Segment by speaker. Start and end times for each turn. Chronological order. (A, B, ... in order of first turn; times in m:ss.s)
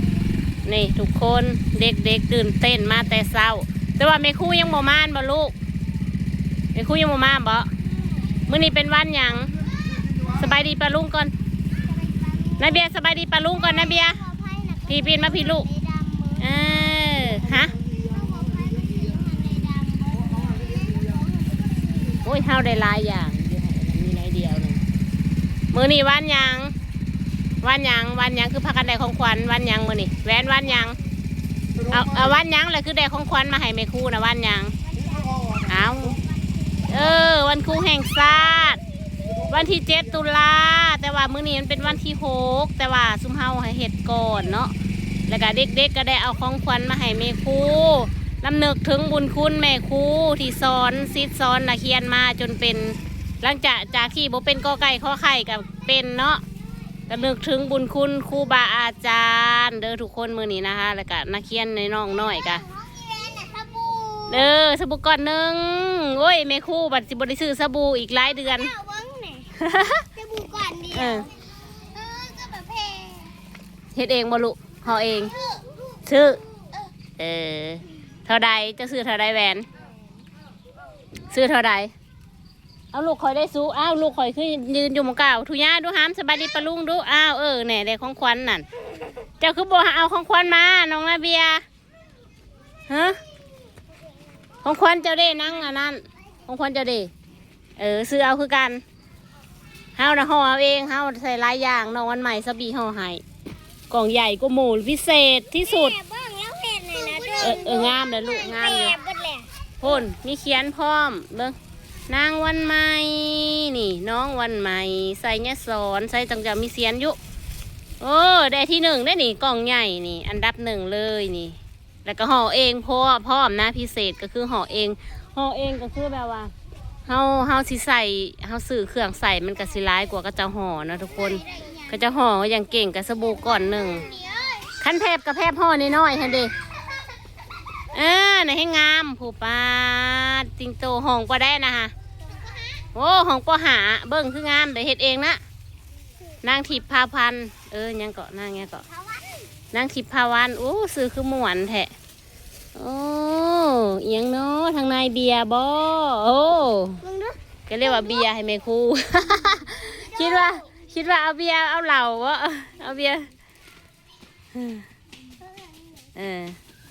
0:00.6-0:05.5 A
0:06.7-0:07.7 A
0:08.5-0:09.5 A
0:10.3-0:11.3 A
0:11.8-0:12.8 B
0:12.6-0:14.2 A
0:13.6-0:17.0 B
0:14.9-0:15.7 A
0:16.4-0:17.7 A
0:18.0-0:22.2 B
0:22.2-0:24.8 A
0:25.7-0:26.7 A
0:27.6-0:31.0 A
0:31.9-0:34.7 A
0:34.9-0:36.2 B
0:35.6-0:36.2 A
0:36.8-0:38.8 A
0:39.5-0:44.7 A
0:45.3-0:56.4 A
0:57.1-1:02.6 A
1:02.6-1:04.5 B
1:04.3-1:08.7 A
1:08.5-1:09.5 B
1:09.6-1:10.0 A
1:10.2-1:13.4 B
1:10.9-1:11.3 A
1:13.9-1:15.3 A
1:15.4-1:15.6 B
1:16.1-1:16.4 A
1:17.2-1:19.7 A
1:21.3-1:21.9 A
1:22.9-1:28.6 A
1:29.4-1:31.6 A
1:32.9-1:33.2 A
1:34.6-1:37.1 A
1:37.8-1:38.8 A
1:40.0-1:43.2 A
1:43.9-1:46.0 A
1:45.8-1:49.5 B
1:47.4-1:49.0 A
1:49.8-1:51.6 A
1:52.1-1:57.2 A
1:58.0-2:06.5 A
2:07.1-2:14.1 A
2:11.4-2:11.9 B
2:14.0-2:14.7 B
2:14.8-2:16.5 A
2:17.9-2:21.9 A
2:22.9-2:25.4 A
2:26.4-2:28.8 A
2:29.7-2:31.9 A
2:32.7-2:37.0 A
2:37.0-2:37.4 B
2:37.7-2:43.3 A
2:40.3-2:40.6 B
2:44.5-2:44.8 A
2:46.2-2:46.6 A